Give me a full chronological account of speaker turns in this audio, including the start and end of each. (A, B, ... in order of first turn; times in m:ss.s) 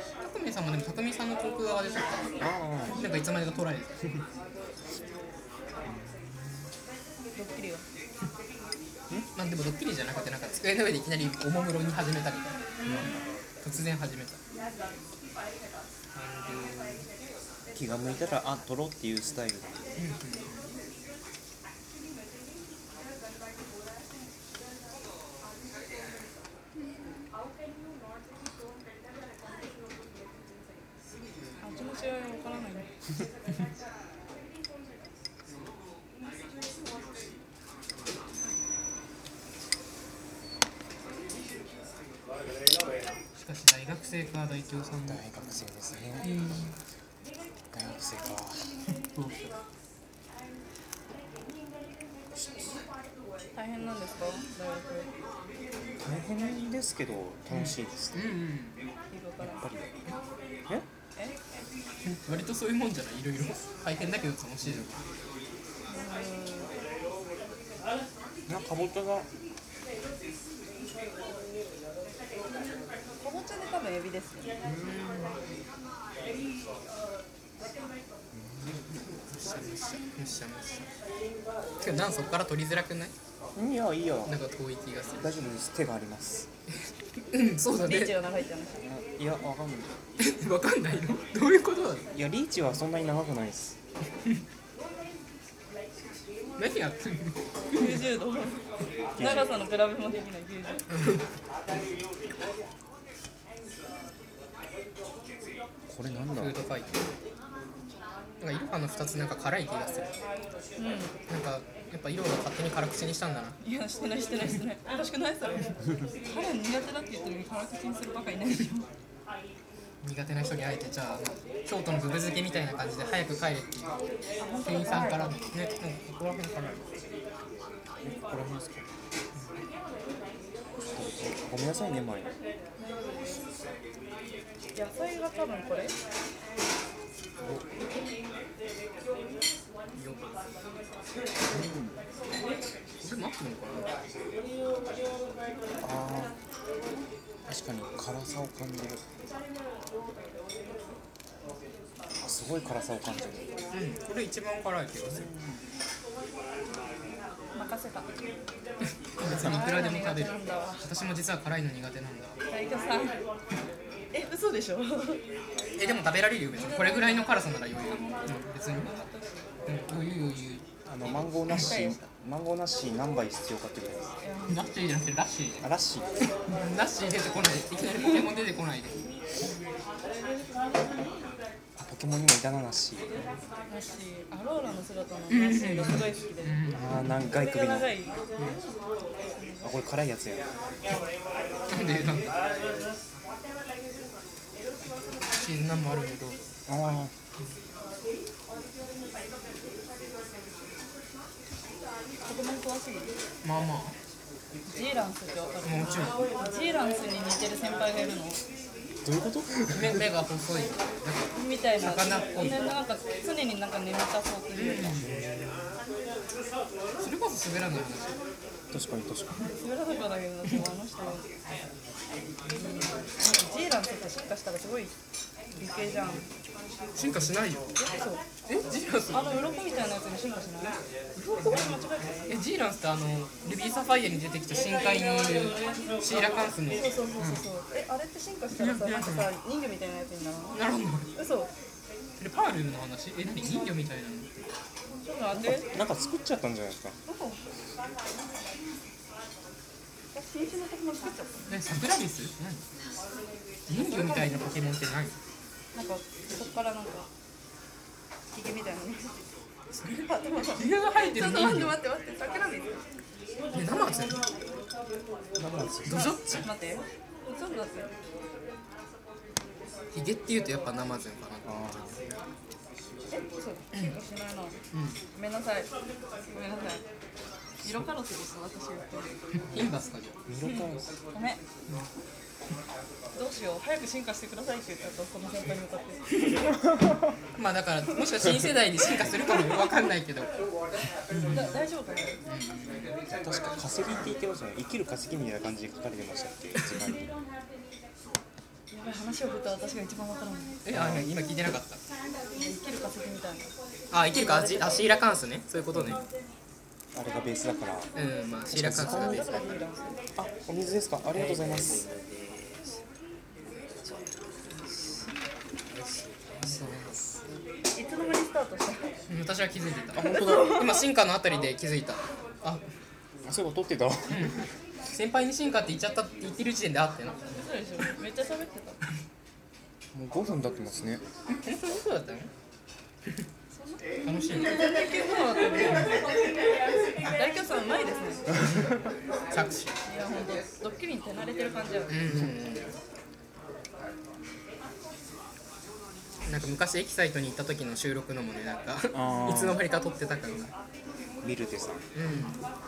0:00.2-0:03.9 A
0:02.4-0:03.0 B
0:05.8-0:06.7 B
0:07.4-0:07.8 C
0:09.4-0:14.4 A
0:12.8-0:13.1 C
0:12.9-0:13.2 B
0:16.1-0:17.1 A
0:17.8-0:19.9 B
0:20.0-0:20.7 A
0:31.6-0:32.9 C
0:43.4-0:45.2 A
0:45.1-0:46.4 B
0:46.2-0:46.7 A
0:47.7-0:48.8 B
0:49.1-0:49.6 A
0:52.3-0:52.8 B
0:53.5-0:55.1 C
0:56.0-0:58.3 B
0:57.5-0:58.8 A
0:59.1-0:59.7 C
0:59.4-1:00.0 B
1:02.0-1:05.0 A
1:05.9-1:06.7 C
1:08.5-1:09.3 B
1:13.2-1:14.5 C
1:14.7-1:15.4 A
1:18.3-1:18.8 B
1:19.3-1:20.9 A
1:21.8-1:23.1 A
1:23.6-1:24.4 B
1:24.3-1:25.5 A
1:25.2-1:26.5 B
1:27.3-1:28.2 A
1:27.7-1:28.8 C
1:28.8-1:29.9 B
1:30.2-1:32.1 A
1:32.1-1:33.8 B
1:36.6-1:38.1 A
1:37.7-1:38.6 C
1:39.2-1:40.8 C
1:39.2-1:39.5 B
1:40.9-1:41.2 A
1:45.9-1:46.6 B
1:46.3-1:47.0 A
1:48.4-1:50.1 A
1:50.8-1:51.2 C
1:51.3-1:53.6 A
1:53.6-1:58.9 C
2:00.0-2:03.9 A
2:04.4-2:05.4 C
2:04.6-2:06.9 A
2:08.0-2:08.9 B
2:10.9-2:12.3 B
2:12.8-2:13.3 C
2:14.8-2:16.0 C
2:17.4-2:17.7 B
2:19.9-2:20.3 A
2:21.5-2:22.0 B
2:23.0-2:23.9 A
2:25.8-2:26.4 B
2:27.5-2:29.0 B
2:32.2-2:33.5 B
2:33.7-2:35.3 A
2:35.1-2:35.6 B
2:37.5-2:38.1 C
2:39.2-2:42.3 A
2:39.2-2:40.9 C
2:42.5-2:43.2 C
2:44.1-2:45.2 C
2:45.8-2:48.9 A
2:46.5-2:49.3 C
2:49.7-2:51.8 A
2:50.9-2:54.1 B
2:51.5-2:52.0 C
2:54.2-2:54.7 C
2:54.5-2:55.7 A
2:55.6-2:56.1 B
2:56.2-2:59.0 A
3:01.8-3:03.1 B
3:03.7-3:06.6 C
3:05.3-3:07.2 A
3:06.7-3:07.9 B
3:07.2-3:08.2 C
3:09.2-3:09.7 C
3:09.6-3:10.5 B
3:11.7-3:12.3 A
3:15.3-3:16.4 A
3:16.7-3:17.1 B
3:22.2-3:23.1 C
3:23.4-3:24.0 A
3:24.7-3:28.4 C
3:25.6-3:26.2 A
3:29.0-3:30.1 B
3:29.7-3:32.7 A
3:31.3-3:35.1 C
3:34.5-3:35.1 A
3:35.0-3:35.8 B
3:37.0-3:38.2 A
3:38.7-3:39.5 B
3:39.4-3:41.3 C
3:42.6-3:44.9 C
3:45.6-3:46.3 C
3:46.9-3:47.7 A
3:47.8-3:48.3 C
3:48.5-3:49.4 A
3:49.1-3:52.4 C
3:51.2-3:51.8 A
3:52.3-3:57.5 A
3:56.7-4:00.6 C
3:58.6-3:59.3 A
4:00.5-4:01.1 A
4:01.2-4:01.5 C
4:02.2-4:04.3 A
4:05.0-4:05.7 C
4:05.3-4:07.0 B
4:07.1-4:07.4 C
4:10.1-4:11.6 C
4:11.5-4:12.6 A
4:13.7-4:15.1 A
4:13.8-4:14.5 C
4:15.7-4:17.1 C
4:18.3-4:19.2 C
4:19.8-4:22.8 C
4:20.6-4:21.8 A
4:23.5-4:24.2 A
4:25.4-4:26.1 B
4:25.8-4:26.5 A
4:25.9-4:27.9 C
4:29.9-4:31.5 A
4:31.4-4:32.0 B
4:33.1-4:34.6 C
4:34.7-4:35.0 A
4:35.2-4:35.7 C
4:36.3-4:36.8 C
4:37.6-4:39.4 C
4:39.5-4:40.2 A
4:40.3-4:40.9 B
4:40.4-4:41.4 C
4:43.1-4:46.0 C
4:47.4-4:50.3 A
4:51.1-4:51.6 A
4:51.3-4:52.2 C
4:52.3-4:53.0 A
4:53.1-4:57.1 B
4:58.7-5:00.6 C
5:00.6-5:01.8 A
5:00.7-5:01.1 B
5:02.4-5:04.9 C
5:03.9-5:06.0 A
5:05.7-5:06.0 B
5:06.9-5:07.9 B
5:08.0-5:09.6 A
5:08.5-5:09.3 B
5:08.8-5:10.0 C
5:10.2-5:11.9 B
5:11.1-5:11.7 A
5:16.4-5:17.1 A
5:17.7-5:18.9 C
5:19.1-5:22.6 A
5:19.9-5:20.7 B
5:20.0-5:20.7 C
5:23.3-5:24.4 B
5:24.1-5:27.5 A
5:27.4-5:28.8 C
5:29.9-5:31.0 B
5:31.3-5:32.3 A
5:33.5-5:36.2 C
5:34.0-5:34.8 A
5:37.0-5:38.3 C
5:39.3-5:39.8 A
5:39.9-5:42.1 C
5:41.9-5:42.7 A
5:46.2-5:50.5 A
5:48.9-5:49.6 B
5:51.2-5:51.9 B
5:51.9-5:52.4 A